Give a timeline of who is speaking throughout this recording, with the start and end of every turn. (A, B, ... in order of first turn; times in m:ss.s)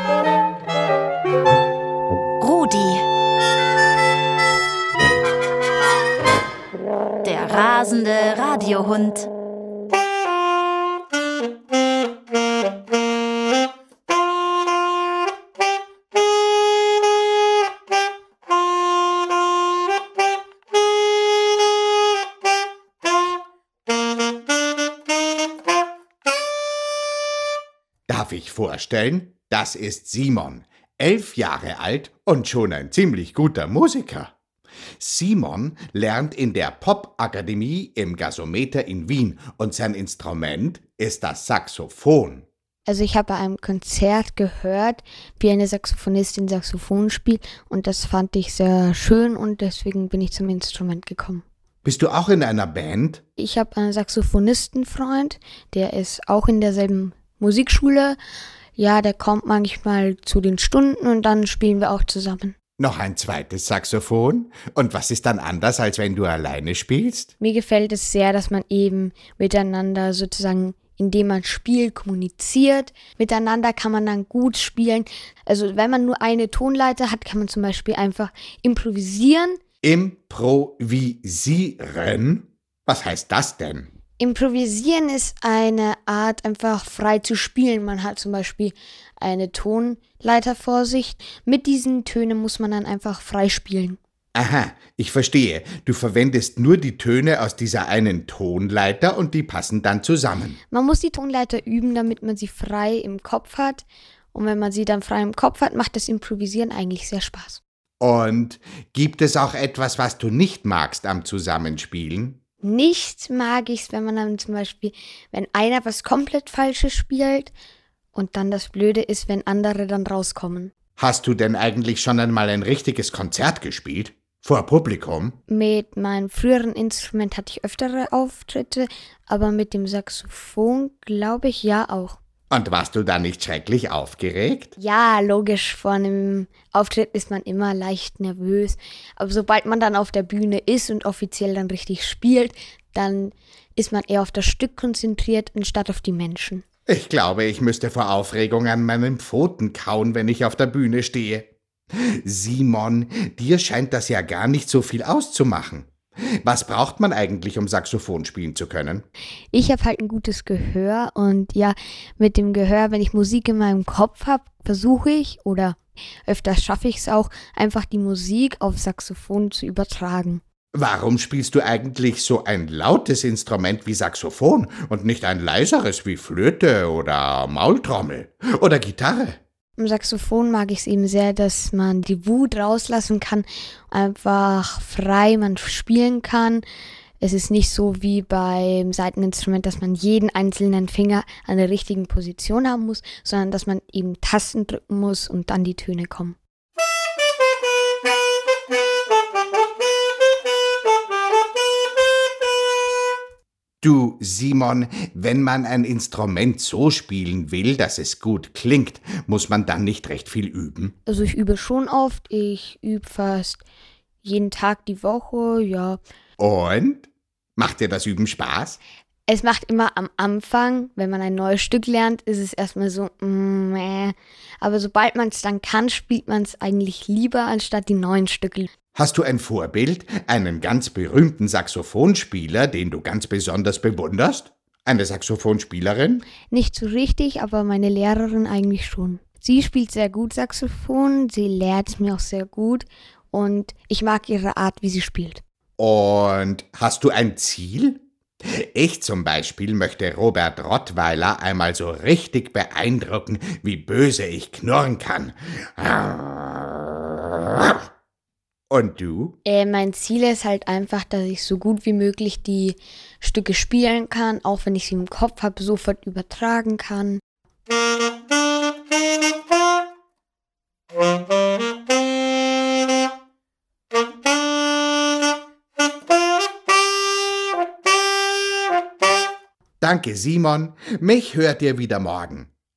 0:02.4-0:03.0 A
0:07.2-0:09.3 A
0:28.1-0:34.3 B
0:35.0-0:42.5 B
0:42.8-0:51.4 C
0:51.8-0:53.2 B
0:53.4-0:58.2 C
0:58.8-1:02.6 C
1:02.8-1:07.3 B
1:07.4-1:19.6 C
1:19.8-1:23.9 B
1:24.2-1:34.0 C
1:34.3-1:40.6 B
1:40.7-1:47.6 C
1:48.0-1:52.4 B
1:52.6-1:57.5 C
1:58.1-2:00.7 C
2:01.0-2:05.4 B
2:05.5-2:12.2 C
2:12.5-2:14.7 B
2:14.8-2:26.6 C
2:26.9-2:39.0 B
2:39.5-2:50.4 C
2:50.7-2:59.4 B
2:59.8-3:06.6 C
3:07.2-3:16.4 C
3:23.8-3:30.9 B
3:31.0-3:33.6 C
3:34.2-3:36.0 C
3:36.4-3:38.8 B
3:39.3-3:48.7 C
3:48.9-3:56.2 B
3:56.5-4:05.4 C
4:05.8-4:17.8 B
4:18.7-4:19.4 B
4:19.4-4:27.2 C
4:39.8-4:42.5 B